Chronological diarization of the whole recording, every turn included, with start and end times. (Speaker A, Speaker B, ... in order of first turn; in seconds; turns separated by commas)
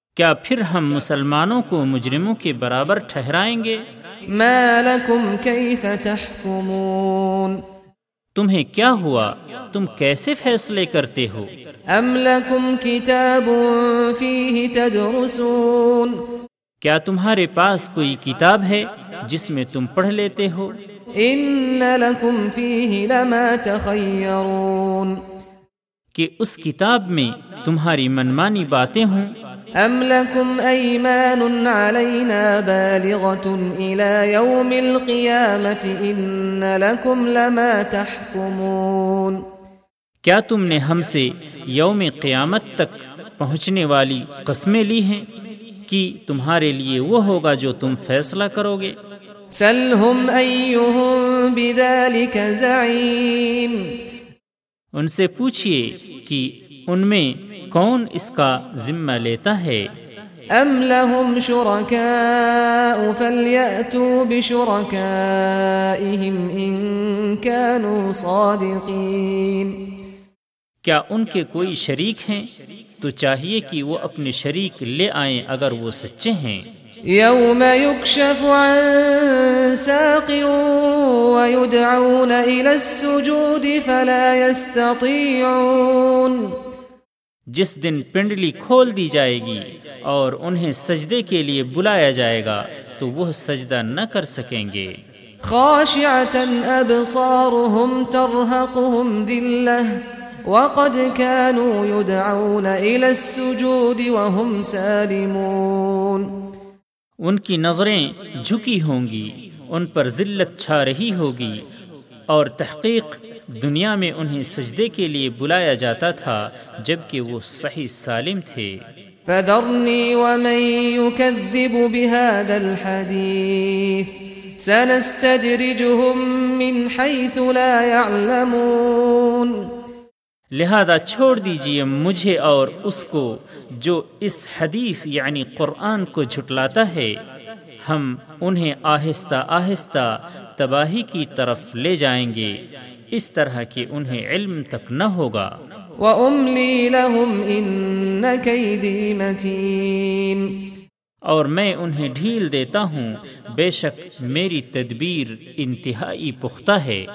Speaker A: 0.1-3.8, Speaker B: 4.3-7.6, Speaker A: 8.3-11.5, Speaker B: 11.9-16.2, Speaker A: 16.8-20.8, Speaker B: 21.2-25.2, Speaker A: 26.1-29.3, Speaker B: 29.8-39.4, Speaker A: 40.2-45.2, Speaker A: 45.9-49.0, Speaker B: 49.5-53.9, Speaker A: 55.0-59.9, Speaker B: 60.5-69.8, Speaker A: 70.8-72.5, Speaker A: 73.0-76.6, Speaker B: 77.1-86.5, Speaker A: 87.5-94.9, Speaker B: 95.4-100.0, Speaker B: 100.5-106.3, Speaker A: 107.2-111.6, Speaker A: 112.3-118.7, Speaker B: 119.3-129.7, Speaker A: 130.5-137.1, Speaker A: 137.8-142.6, Speaker A: 143.1-145.5, Speaker B: 146.0-150.6, Speaker A: 151.3-157.0